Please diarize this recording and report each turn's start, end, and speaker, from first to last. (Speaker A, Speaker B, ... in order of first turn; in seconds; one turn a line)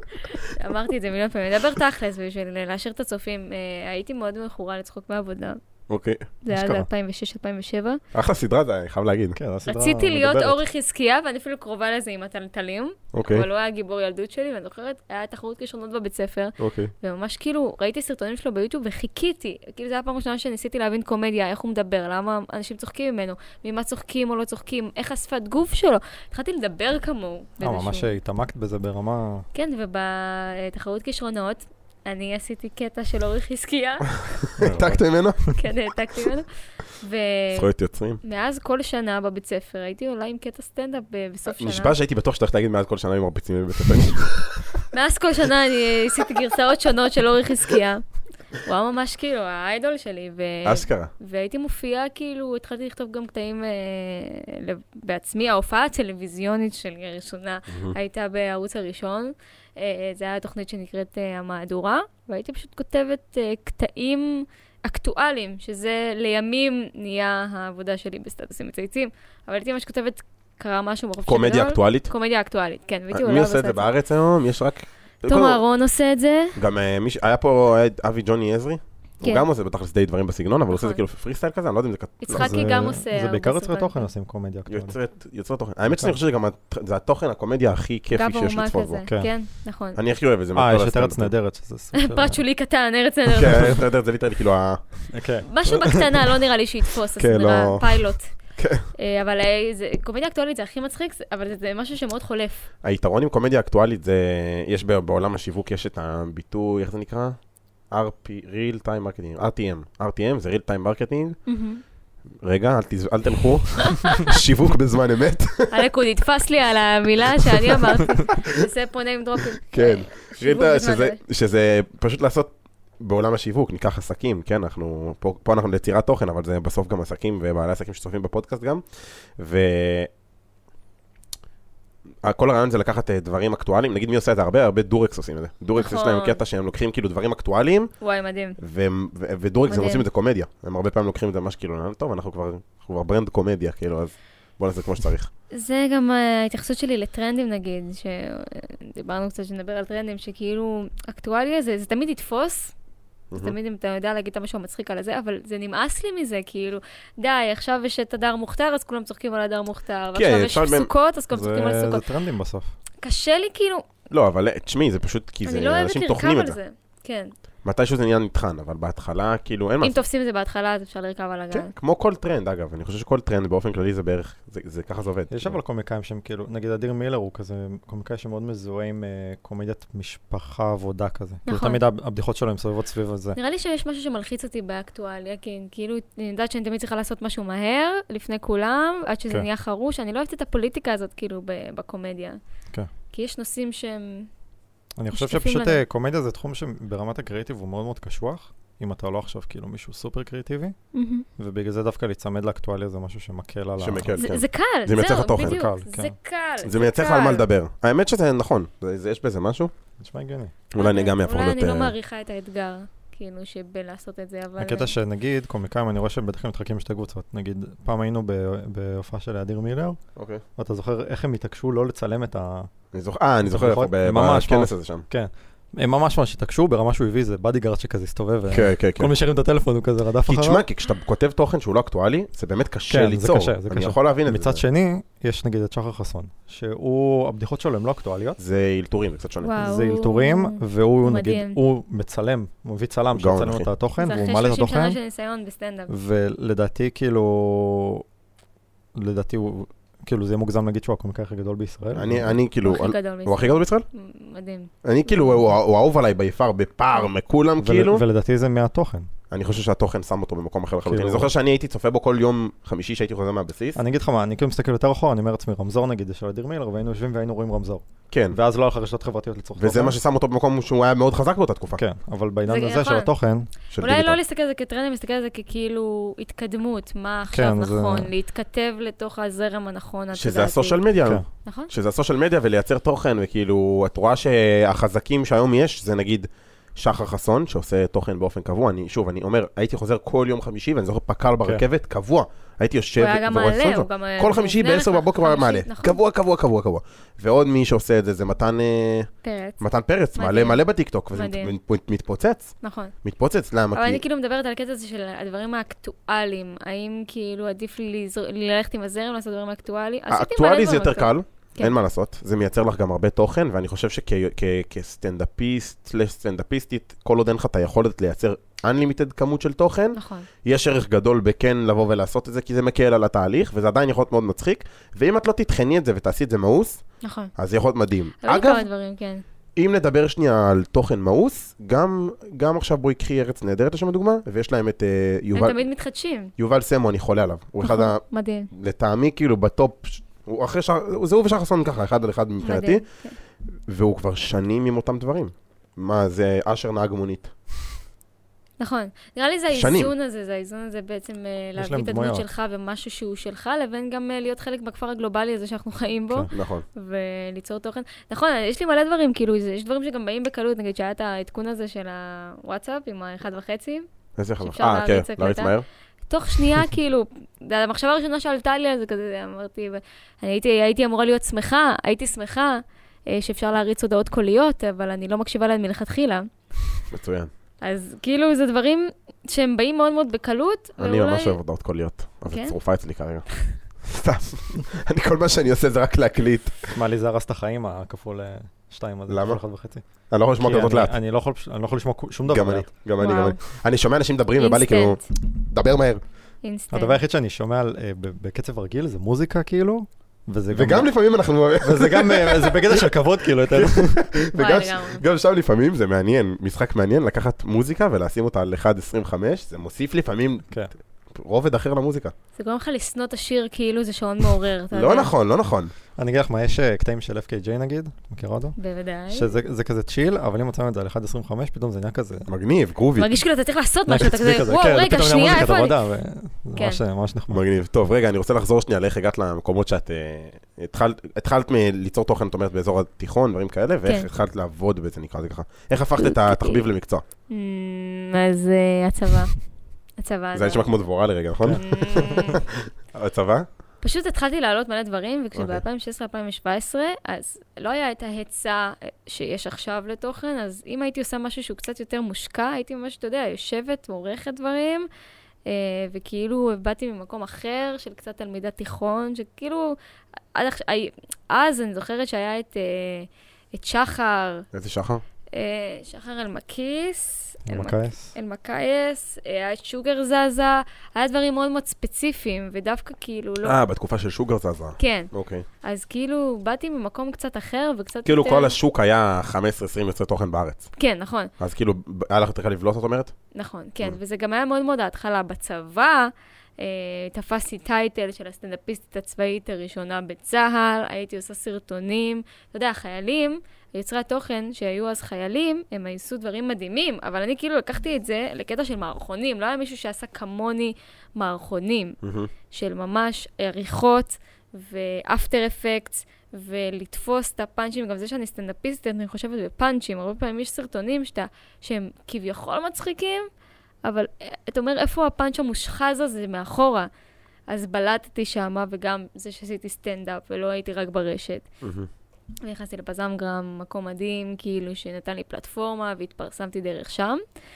Speaker A: 0.5-5.6
Speaker B: 5.9-6.3
Speaker A: 6.4-8.0
Speaker C: 6.5-6.9
Speaker B: 8.1-9.4
Speaker C: 9.3-10.6
Speaker A: 9.7-28.2
Speaker B: 13.1-13.5
Speaker B: 16.6-16.9
Speaker C: 27.6-29.5
Speaker A: 29.5-34.2
Speaker B: 34.2-35.5
Speaker C: 34.6-35.0
Speaker A: 35.5-37.7
Speaker B: 37.5-38.2
Speaker A: 38.2-42.0
Speaker B: 41.5-44.7
Speaker A: 44.9-48.0
Speaker A: 48.6-73.9
Speaker B: 50.6-51.1
Speaker B: 57.7-58.0
Speaker B: 71.3-72.1
Speaker B: 73.1-75.6
Speaker A: 75.2-76.6
Speaker B: 76.5-82.7
Speaker A: 80.7-81.0
Speaker A: 82.2-84.1
Speaker C: 82.3-85.0
Speaker B: 84.7-89.0
Speaker C: 85.9-86.2
Speaker A: 88.1-90.0
Speaker C: 89.0-89.3
Speaker B: 90.0-91.3
Speaker C: 90.5-92.4
Speaker A: 91.9-93.8
Speaker B: 93.3-95.1
Speaker C: 95.1-96.1
Speaker A: 95.4-98.3
Speaker B: 97.2-98.9
Speaker A: 99.0-102.7
Speaker B: 102.8-107.4
Speaker B: 107.9-111.4
Speaker A: 111.5-111.8
Speaker B: 112.4-115.8
Speaker A: 113.9-114.3
Speaker A: 115.7-121.2
Speaker B: 118.4-118.6
Speaker B: 119.7-130.1
Speaker B: 132.2-137.9
Speaker A: 135.8-136.4
Speaker A: 138.0-138.6
Speaker B: 138.6-145.3
Speaker A: 139.7-140.1
Speaker A: 145.5-152.8
Speaker B: 153.3-153.6
Speaker A: 153.4-162.1
Speaker B: 160.2-160.9
Speaker C: 161.3-162.7
Speaker A: 163.0-163.8
Speaker B: 164.1-166.6
Speaker A: 165.4-167.3
Speaker B: 167.6-170.0
Speaker A: 169.8-171.7
Speaker B: 171.5-175.6
Speaker C: 175.3-183.4
Speaker A: 181.5-181.8
Speaker A: 183.3-192.4
Speaker A: 193.1-194.3
Speaker C: 195.0-200.8
Speaker A: 195.1-195.8
Speaker A: 200.9-201.3
Speaker C: 201.4-204.2
Speaker B: 203.8-205.6
Speaker A: 204.2-207.5
Speaker C: 205.3-206.1
Speaker B: 206.6-209.7
Speaker C: 210.0-210.5
Speaker B: 210.7-211.9
Speaker A: 210.8-214.9
Speaker C: 214.6-220.0
Speaker B: 220.2-220.4
Speaker C: 220.6-222.7
Speaker B: 222.9-225.1
Speaker C: 223.4-230.7
Speaker B: 228.5-229.1
Speaker B: 230.2-234.6
Speaker C: 232.9-238.4
Speaker B: 238.4-239.7
Speaker A: 239.4-241.6
Speaker C: 239.6-245.0
Speaker B: 243.2-243.7
Speaker A: 244.0-245.9
Speaker C: 245.9-248.0
Speaker C: 248.9-252.4
Speaker B: 251.9-253.9
Speaker A: 252.6-255.4
Speaker B: 254.8-258.0
Speaker C: 257.6-259.1
Speaker B: 259.3-263.8
Speaker C: 260.9-261.3
Speaker C: 263.8-270.0
Speaker B: 268.1-268.4
Speaker B: 269.6-271.8
Speaker C: 271.7-273.5
Speaker A: 272.5-273.1
Speaker B: 273.7-274.2
Speaker A: 273.8-280.8
Speaker C: 277.3-278.1
Speaker B: 280.1-304.0
Speaker A: 281.4-281.7
Speaker A: 293.0-296.0
Speaker A: 299.2-299.6
Speaker A: 300.2-300.6
Speaker A: 301.1-301.5
Speaker A: 302.6-302.9
Speaker A: 303.7-311.8
Speaker B: 310.1-326.8
Speaker A: 319.9-320.3
Speaker A: 327.0-327.3
Speaker B: 327.4-328.7
Speaker A: 328.2-329.2
Speaker B: 329.6-335.6
Speaker A: 335.4-336.3
Speaker B: 336.4-342.9
Speaker A: 337.6-338.5
Speaker A: 342.4-343.2
Speaker B: 343.7-347.4
Speaker A: 348.6-363.9
Speaker B: 349.5-349.9
Speaker C: 351.6-352.2
Speaker B: 356.3-356.6
Speaker B: 364.2-365.6
Speaker A: 364.4-365.5
Speaker A: 366.1-376.3
Speaker B: 376.9-377.3
Speaker A: 377.6-381.4
Speaker B: 380.8-383.3
Speaker A: 382.3-382.6
Speaker B: 383.8-386.8
Speaker C: 386.7-389.8
Speaker B: 389.1-389.4
Speaker B: 390.1-390.9
Speaker C: 390.4-392.7
Speaker B: 392.3-396.0
Speaker A: 393.0-393.4
Speaker A: 394.4-395.0
Speaker A: 396.4-397.0
Speaker C: 396.7-400.9
Speaker B: 400.5-402.9
Speaker C: 401.6-404.1
Speaker B: 403.4-410.5
Speaker A: 404.4-405.0
Speaker B: 411.1-412.1
Speaker A: 412.4-415.1
Speaker B: 414.7-415.7
Speaker C: 416.0-418.6
Speaker A: 418.6-419.3
Speaker C: 419.1-422.3
Speaker B: 422.3-423.2
Speaker A: 423.0-425.8
Speaker C: 423.9-427.4
Speaker A: 426.6-426.8
Speaker B: 427.3-437.0
Speaker A: 436.0-436.6
Speaker A: 437.3-439.3
Speaker A: 440.0-440.7
Speaker B: 440.4-443.5
Speaker A: 441.5-442.4
Speaker A: 443.8-454.9
Speaker B: 445.4-445.6
Speaker A: 455.5-459.7
Speaker A: 460.4-464.5
Speaker B: 464.5-465.0
Speaker A: 465.3-473.6
Speaker C: 467.5-468.1
Speaker B: 473.4-475.5
Speaker A: 474.8-475.1
Speaker A: 475.6-478.6
Speaker B: 478.1-480.7
Speaker A: 480.8-481.3
Speaker B: 481.4-483.1
Speaker A: 483.3-502.0
Speaker B: 502.0-502.3
Speaker A: 502.5-513.3
Speaker A: 513.9-516.9
Speaker A: 517.5-521.5
Speaker B: 521.6-521.9
Speaker A: 522.5-527.2